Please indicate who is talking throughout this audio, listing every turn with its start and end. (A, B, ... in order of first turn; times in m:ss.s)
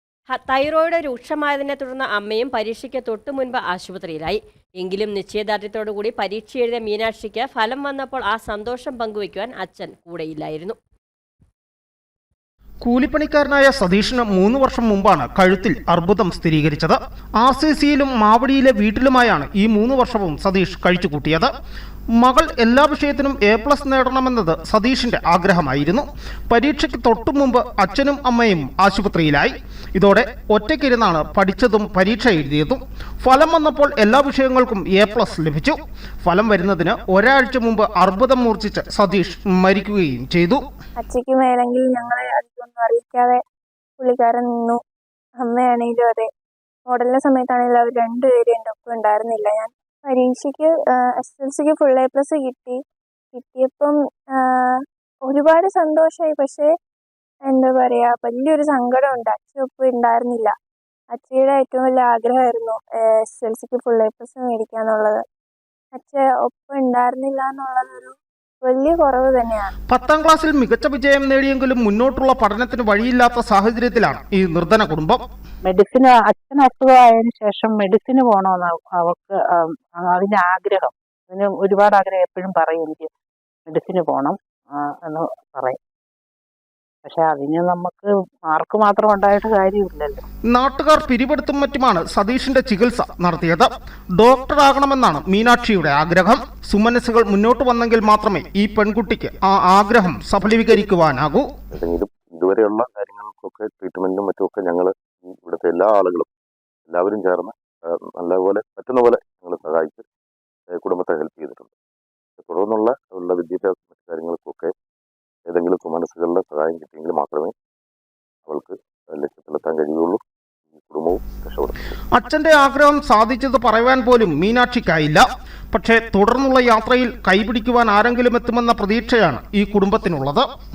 0:00.3-0:10.8 A
0:12.8-0:21.5 B
0:22.2-0:40.6 B
0:41.0-0:43.4 C
0:44.0-0:44.8 C
0:45.4-0:46.3 C
0:46.9-0:52.8 C
0:53.3-0:53.9 C
0:55.3-0:56.7 C
0:57.5-1:00.5 C
1:01.1-1:05.2 C
1:06.0-1:09.7 C
1:09.9-1:15.2 B
1:15.6-1:23.1 D
1:23.7-1:24.4 D
1:25.0-1:25.8 D
1:27.0-1:30.2 D
1:30.5-1:41.5 B
1:41.7-1:46.3 E
1:46.9-1:50.0 E
1:50.7-1:51.7 E
1:52.4-1:54.7 E
1:55.5-1:57.5 E
1:58.5-2:00.2 E
2:00.7-2:01.8 E
2:02.1-2:10.5 B